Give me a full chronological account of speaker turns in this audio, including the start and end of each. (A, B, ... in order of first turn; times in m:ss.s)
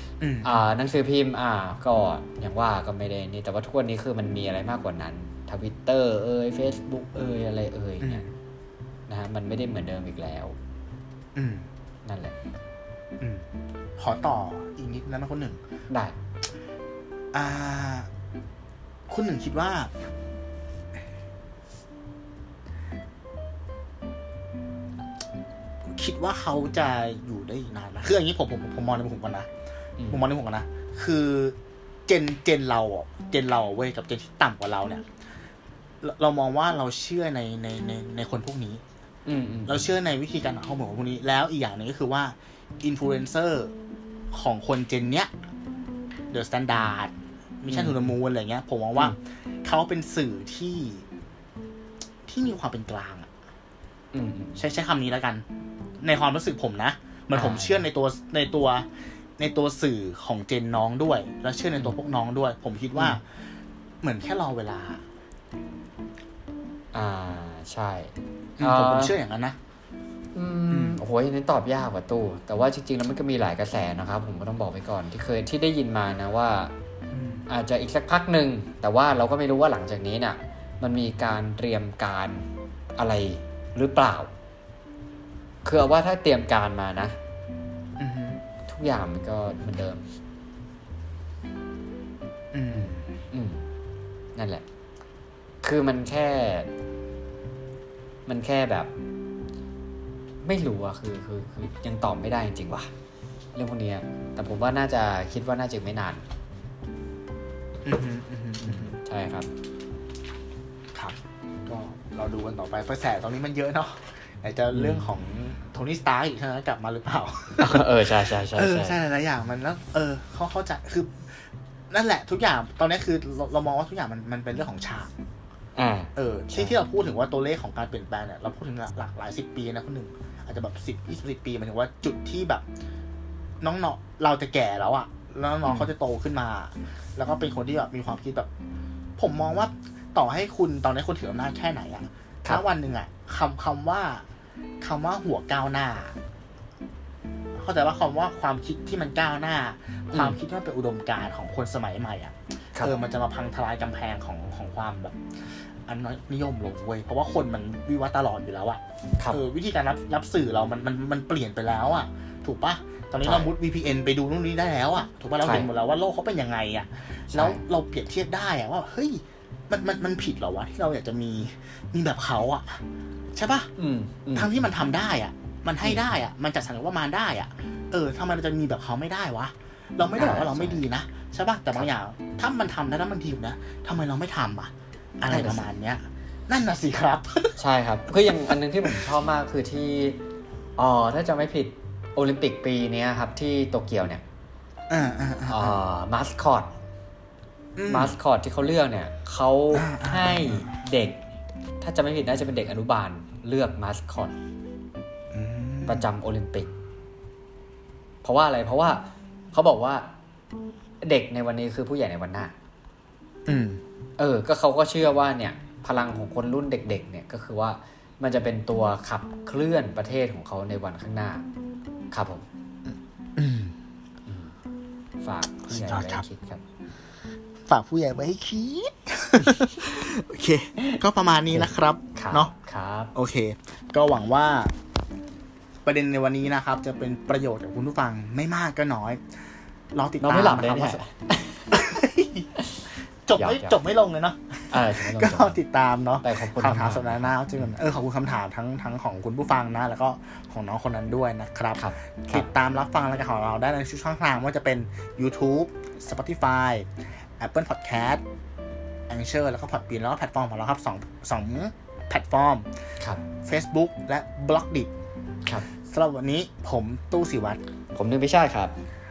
0:00.2-0:00.6 A
0:00.4-0:08.2 B
0:08.0-0:08.3 A
0:09.1-0:10.6 B
0:11.3-0:11.7 A
0:12.0-0:12.3 B
0:13.2-0:13.4 A
0:14.0-0:15.6 A
0:15.9-0:16.1 B
0:17.3-0:18.1 A
0:19.1-0:19.9 A
0:25.9-0:29.5 A
0:30.0-0:30.2 B
0:30.1-0:31.6 A
0:32.1-0:35.0 A
0:36.0-0:38.8 A
0:39.2-0:39.9 B
0:39.7-0:43.7 A
0:44.3-0:45.3 A
0:46.3-0:51.0 A
0:47.7-0:48.1 B
0:52.2-0:53.3 A
0:54.1-0:54.6 B
0:54.6-0:55.4 A
0:56.0-0:58.9 A
0:57.3-0:57.8 B
0:59.4-1:03.2 A
1:04.0-1:05.0 A
1:06.9-1:09.1 B
1:08.6-1:09.6 A
1:10.3-1:16.7 B
1:10.7-1:11.0 A
1:17.1-1:17.4 A
1:17.5-1:22.4 B
1:23.0-1:24.3 B
1:25.6-1:27.2 B
1:28.0-1:28.4 A
1:28.7-1:30.0 B
1:32.5-1:33.2 A
1:32.7-1:33.6 B
1:34.3-1:34.6 B
1:35.6-1:36.7 B
1:38.3-1:38.9 B
1:40.4-1:42.9 B
1:43.5-1:46.2 B
1:47.8-1:49.0 A
1:48.6-1:49.5 B
1:50.9-2:05.1 A
1:54.7-1:55.1 B
1:57.6-1:59.0 B
2:05.8-2:06.7 B
2:06.2-2:12.6 A
2:13.6-2:18.5 A
2:15.6-2:15.9 B
2:19.2-2:24.2 A
2:24.8-2:26.2 A
2:27.5-2:35.2 A
2:30.1-2:30.4 B
2:35.8-2:52.8 A
2:43.2-2:43.5 B
2:45.4-2:45.7 B
2:47.3-2:47.6 B
2:53.3-2:53.7 A
2:53.8-2:54.7 B
2:54.3-3:07.6 A
2:55.8-2:56.1 B
3:00.1-3:00.8 B
3:05.2-3:05.7 B
3:07.6-3:10.2 B
3:08.1-3:09.1 A
3:10.8-3:14.2 B
3:14.9-3:15.8 A
3:15.5-3:16.7 B
3:17.8-3:18.2 A
3:17.9-3:21.2 B
3:19.7-3:20.7 A
3:21.8-3:24.3 B
3:25.3-3:26.1 A
3:25.8-3:26.7 B
3:28.2-3:30.1 B
3:31.0-3:32.5 B
3:33.4-3:33.8 A
3:34.2-3:41.4 B
3:42.1-3:42.4 B
3:42.9-3:43.7 A
3:44.3-3:44.5 B
3:45.2-3:46.6 B
3:45.6-3:46.2 A
3:47.6-3:52.5 A
3:51.5-3:53.1 B
3:53.1-3:54.7 A
3:55.8-3:59.2 A
3:59.9-4:01.0 A
4:00.2-4:01.8 B
4:01.7-4:02.5 A
4:02.6-4:03.8 B
4:03.2-4:18.2 A
4:04.7-4:05.6 B
4:06.2-4:07.7 B
4:11.8-4:12.5 B
4:19.1-4:22.7 A
4:23.4-4:24.9 A
4:25.8-4:27.6 A
4:27.9-4:28.7 B